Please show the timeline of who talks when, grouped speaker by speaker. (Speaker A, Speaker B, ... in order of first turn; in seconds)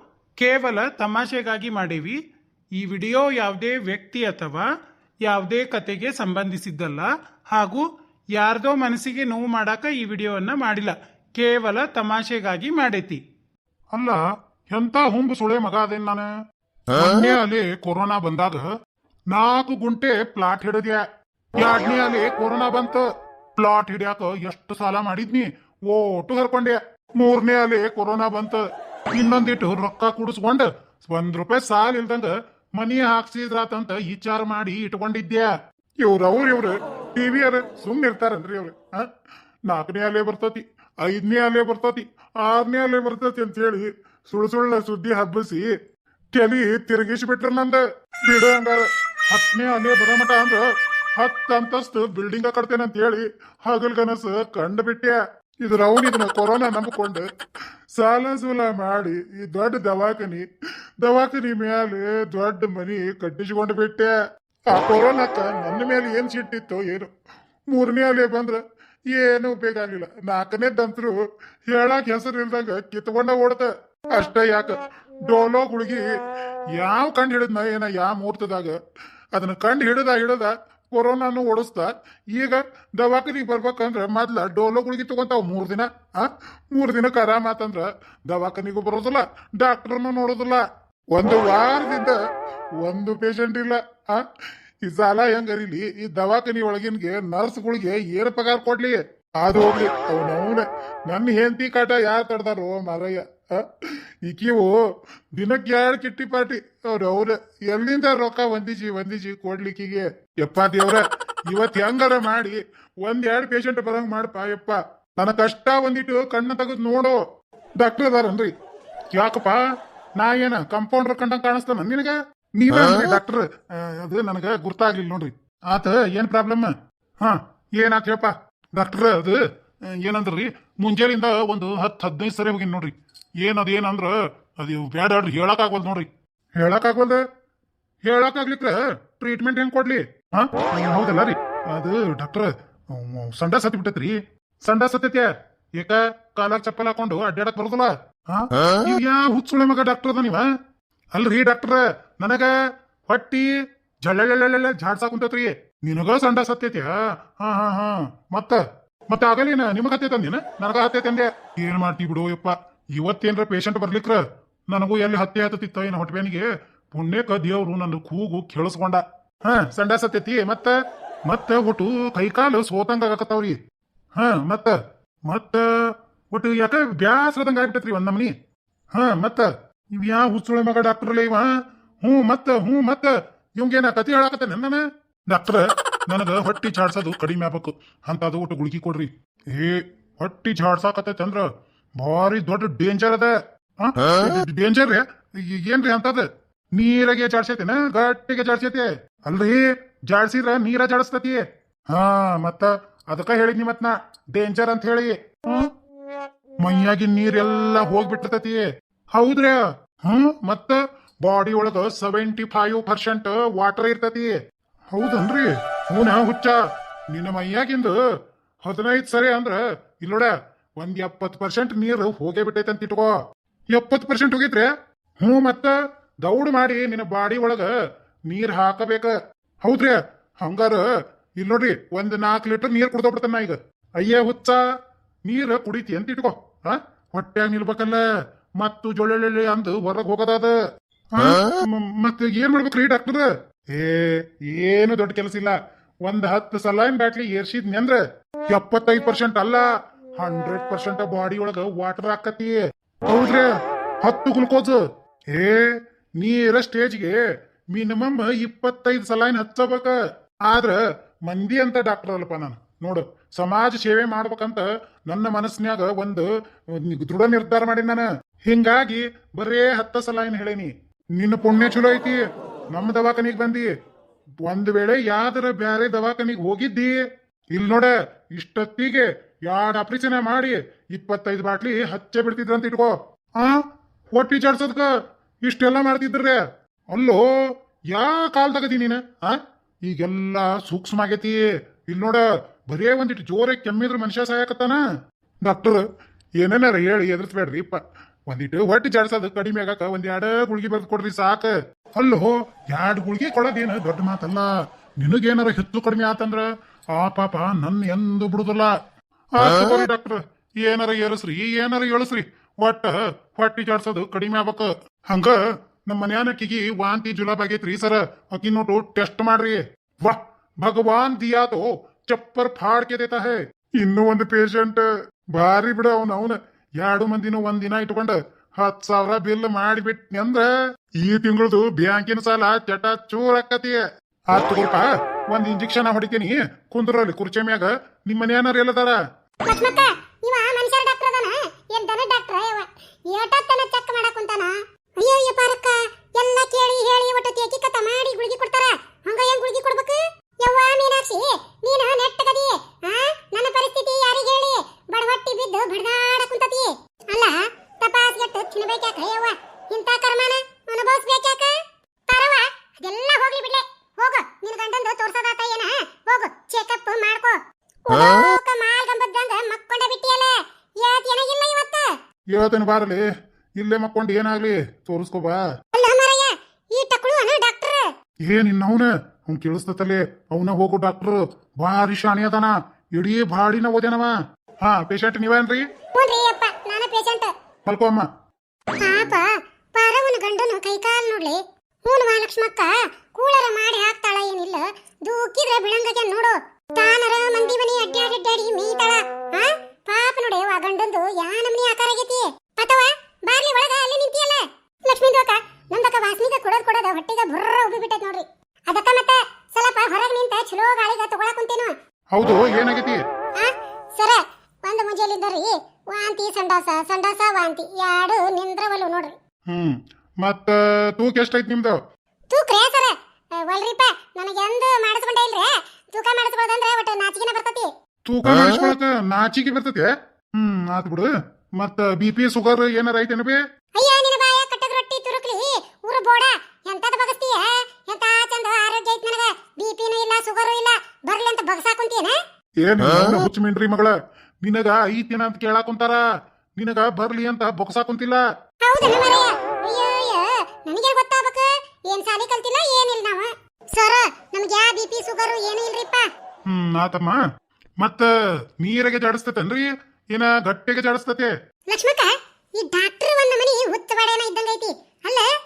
Speaker A: 0.4-2.2, 2.8-4.7, 5.2-7.8, 8.3-13.2
Speaker B: 14.7-16.3, 16.9-18.6, 19.3-21.0, 21.6-23.1, 23.6-28.6, 29.1-35.5, 36.0-39.1, 39.7-45.7, 46.3-50.6, 51.2-57.2, 58.0-60.5, 61.0-64.1, 64.7-67.1, 67.7-68.6, 69.2-71.2, 71.7-76.0, 76.8-78.8, 79.3-90.6, 91.1-92.2, 92.8-94.3, 94.8-104.7, 105.3-117.2, 117.8-118.5, 119.1-119.6, 120.2-129.4, 130.0-137.2, 138.1-150.5, 151.1-152.5, 153.1-153.5, 154.0-173.6, 174.2-175.7, 176.3-178.3, 178.9-181.5, 182.0-191.5, 192.0-205.7, 206.6-214.3, 214.9-216.6, 217.1-218.0, 218.6-223.1, 223.7-224.7, 225.2-225.7, 226.2-227.7, 228.3-230.8, 231.4-234.6, 235.3-238.0, 238.6-240.6, 241.1-248.0, 248.5-249.7, 250.2-253.5, 254.0-254.8, 255.3-257.2, 257.7-272.2, 272.7-273.7, 274.4-277.0, 277.5-283.6, 284.1-284.9, 285.4-287.2, 287.9-294.8, 295.4-295.8, 296.4-308.8, 309.4-315.4, 315.9-330.5, 331.0-333.8, 334.3-339.0, 372.3-373.0, 373.6-375.4, 378.3-385.6, 387.7-388.1, 412.1-413.0, 419.5-421.8, 428.1-431.1, 431.6-433.4, 442.6-446.0, 446.6-448.2, 456.5-457.2, 457.8-458.1, 458.6-461.3
Speaker C: 339.5-371.9, 375.8-377.8, 385.9-387.3, 388.8-411.7, 413.4-419.1, 422.3-422.9, 423.4-427.7, 433.8-442.2, 448.7-456.1, 461.7-465.3